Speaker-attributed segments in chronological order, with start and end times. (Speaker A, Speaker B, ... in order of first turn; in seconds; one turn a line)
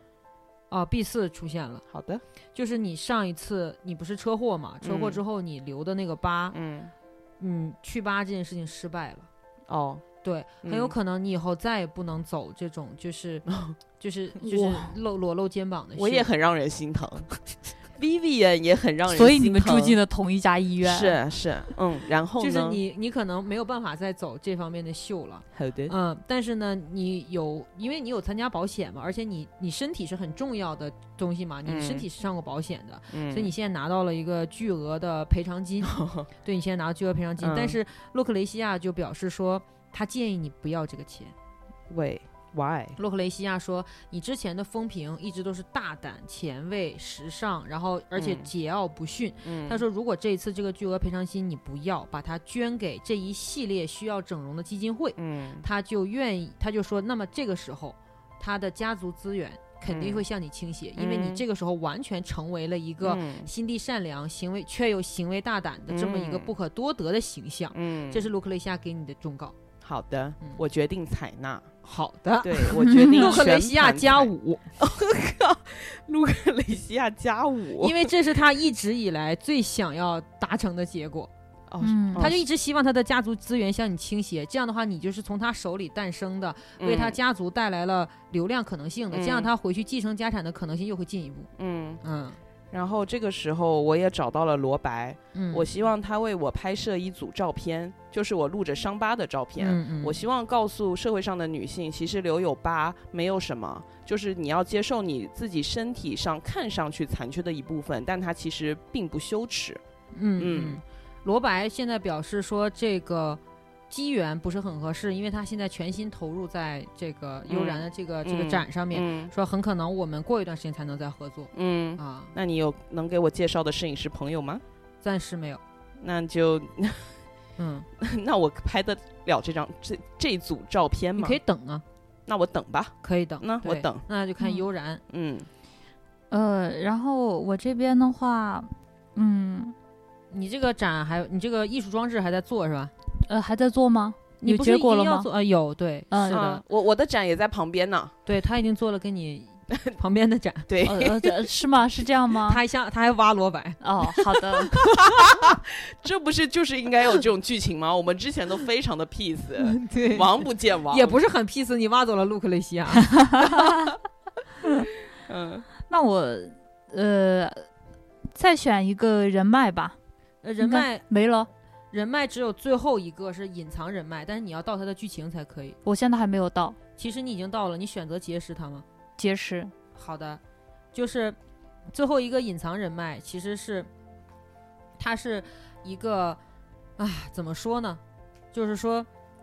Speaker A: 0.7-1.8
Speaker B: 1.9-2.2
Speaker A: 2.5-6.5
Speaker B: 4.8-5.2
Speaker B: 6.5-6.9
Speaker A: 7.4-9.3
Speaker B: 9.7-10.1
Speaker A: 10.2-13.5
Speaker B: 10.6-10.9
Speaker B: 13.5-13.8
Speaker A: 14.0-16.3
Speaker C: 14.5-14.8
Speaker B: 15.9-17.4
Speaker B: 17.9-20.0
Speaker C: 19.1-21.2
Speaker B: 20.8-22.8
Speaker A: 22.4-41.3
Speaker B: 25.5-25.9
Speaker B: 31.6-32.0
Speaker B: 33.1-33.5
Speaker B: 35.8-36.3
Speaker B: 37.4-37.8
Speaker B: 41.9-43.0
Speaker A: 43.0-69.5
Speaker B: 48.1-48.5
Speaker B: 49.4-49.8
Speaker B: 55.2-55.6
Speaker B: 59.9-60.3
Speaker B: 61.0-61.4
Speaker B: 63.0-63.5
Speaker B: 65.9-66.5
Speaker B: 67.7-68.3
Speaker B: 69.8-71.7
Speaker A: 71.8-74.6
Speaker B: 72.4-78.1
Speaker C: 72.8-73.3
Speaker A: 77.8-81.3
Speaker B: 81.7-82.4
Speaker C: 81.8-82.3
Speaker A: 82.2-91.5
Speaker B: 86.8-87.2
Speaker B: 89.1-89.5
Speaker B: 91.6-92.0
Speaker A: 92.0-92.4
Speaker B: 92.7-109.8
Speaker A: 95.3-95.7
Speaker A: 99.6-100.2
Speaker A: 110.1-122.3
Speaker B: 110.4-110.8
Speaker B: 117.5-119.3
Speaker B: 121.5-124.6
Speaker A: 125.0-125.6
Speaker B: 126.0-127.2
Speaker A: 127.6-127.8
Speaker B: 128.0-131.4
Speaker A: 131.2-131.8
Speaker B: 132.3-134.0
Speaker A: 133.0-135.0
Speaker B: 135.1-135.5
Speaker C: 136.3-139.8
Speaker A: 140.3-142.9
Speaker C: 143.2-145.3
Speaker A: 144.4-146.6
Speaker C: 146.1-146.6
Speaker B: 146.3-148.1
Speaker A: 148.2-150.7
Speaker B: 150.7-151.5
Speaker C: 150.8-152.6
Speaker A: 152.5-155.2
Speaker C: 153.8-154.8
Speaker B: 155.1-161.2
Speaker A: 159.6-160.4
Speaker A: 160.9-163.2
Speaker C: 163.1-163.9
Speaker B: 165.2-165.7
Speaker C: 165.8-167.7
Speaker C: 168.3-170.0
Speaker A: 170.4-171.0
Speaker C: 170.6-171.5
Speaker A: 171.9-175.8
Speaker C: 175.8-176.8
Speaker A: 176.9-178.8
Speaker C: 179.2-179.7
Speaker A: 179.9-180.4
Speaker A: 180.9-181.4
Speaker A: 181.9-183.9
Speaker A: 185.0-186.4
Speaker A: 187.0-188.0
Speaker A: 188.5-189.1